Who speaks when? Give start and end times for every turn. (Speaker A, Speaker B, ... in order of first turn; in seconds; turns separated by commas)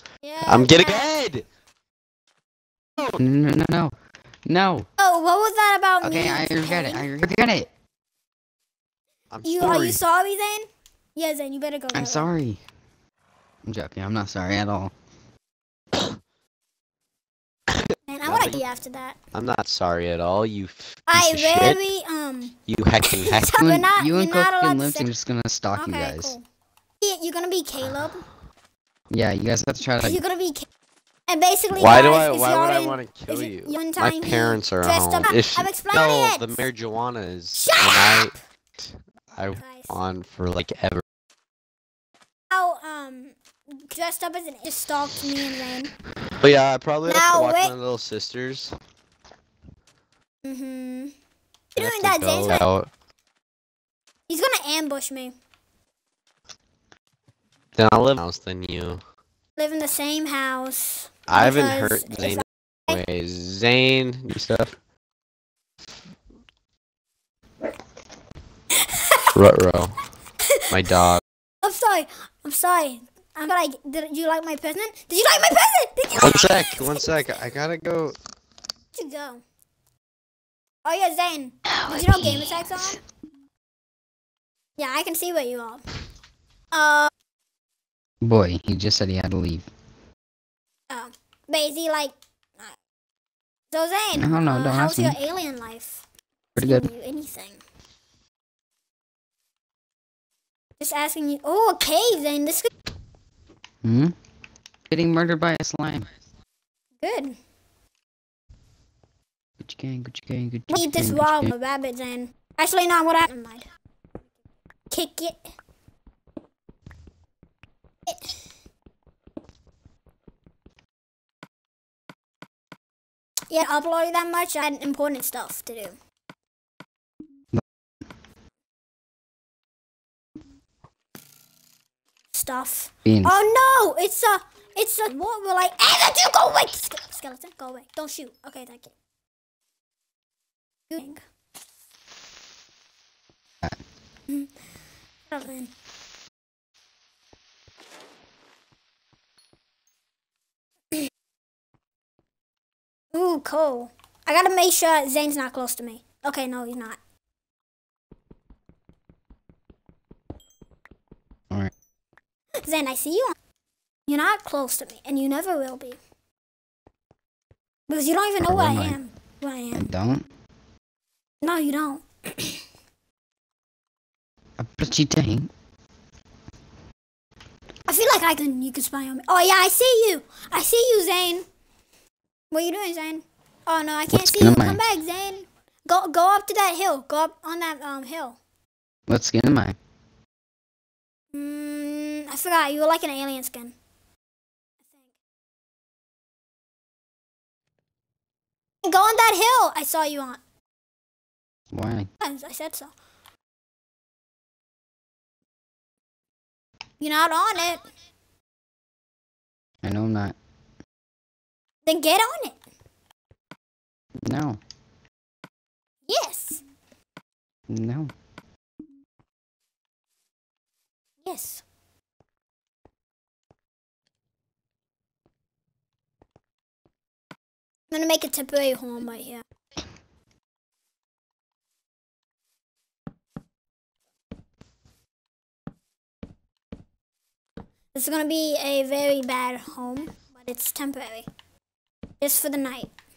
Speaker A: 0.2-1.1, Speaker B: 0.4-1.4, Speaker C: 3.2-4.9, Speaker A: 5.0-7.1, Speaker C: 6.0-7.7, Speaker B: 9.3-10.0, Speaker A: 9.4-12.3, Speaker C: 11.9-12.6, Speaker C: 13.7-14.9, Speaker A: 18.1-19.2, Speaker B: 18.2-18.6, Speaker B: 19.3-21.8, Speaker A: 21.1-25.1, Speaker B: 22.7-23.6, Speaker C: 23.6-26.4, Speaker A: 25.7-26.4, Speaker A: 27.0-28.2, Speaker C: 29.1-30.2, Speaker A: 30.0-30.7, Speaker A: 31.3-36.6, Speaker B: 31.7-41.0, Speaker A: 37.5-38.4, Speaker A: 39.5-39.9, Speaker A: 42.5-45.9, Speaker B: 46.4-48.7, Speaker A: 47.0-47.7, Speaker A: 50.4-51.1, Speaker A: 51.7-52.6, Speaker B: 51.8-52.9, Speaker A: 54.3-55.3, Speaker B: 57.8-59.0, Speaker A: 59.5-63.0, Speaker B: 61.3-64.7, Speaker A: 68.7-69.3, Speaker B: 69.3-69.9, Speaker A: 70.4-70.7, Speaker B: 70.7-71.2, Speaker A: 71.6-77.2, Speaker B: 76.1-78.2, Speaker A: 78.9-79.4, Speaker A: 80.8-83.0, Speaker C: 81.7-82.9, Speaker A: 84.8-85.8, Speaker A: 86.7-87.1, Speaker C: 88.2-89.7, Speaker A: 90.9-92.8, Speaker A: 93.7-96.0, Speaker C: 94.2-95.2, Speaker A: 96.5-97.6, Speaker C: 96.6-96.9, Speaker A: 100.8-102.7, Speaker C: 103.8-104.1, Speaker C: 104.9-106.1, Speaker A: 107.0-107.4, Speaker C: 109.6-111.5, Speaker A: 110.7-113.7, Speaker A: 114.9-115.5, Speaker A: 118.1-118.4, Speaker A: 123.5-126.0, Speaker A: 132.3-138.9, Speaker C: 133.0-133.4, Speaker A: 140.9-141.2, Speaker A: 145.3-145.7, Speaker A: 153.1-157.0, Speaker A: 162.6-163.3, Speaker A: 164.1-166.0, Speaker A: 167.9-169.8, Speaker C: 168.4-169.0, Speaker C: 169.7-170.3, Speaker A: 171.4-172.6, Speaker C: 174.6-175.5, Speaker A: 177.9-181.4, Speaker A: 182.5-188.4, Speaker C: 184.1-184.9, Speaker C: 189.1-189.8, Speaker A: 191.3-193.7, Speaker A: 198.8-200.4, Speaker C: 201.7-202.1, Speaker A: 202.2-202.9, Speaker A: 207.0-207.8, Speaker C: 209.8-210.3, Speaker A: 211.8-212.6, Speaker C: 214.2-214.6, Speaker A: 216.1-216.6, Speaker C: 217.7-218.1, Speaker A: 221.2-221.6, Speaker A: 227.9-229.4, Speaker A: 237.9-241.3, Speaker A: 242.2-242.9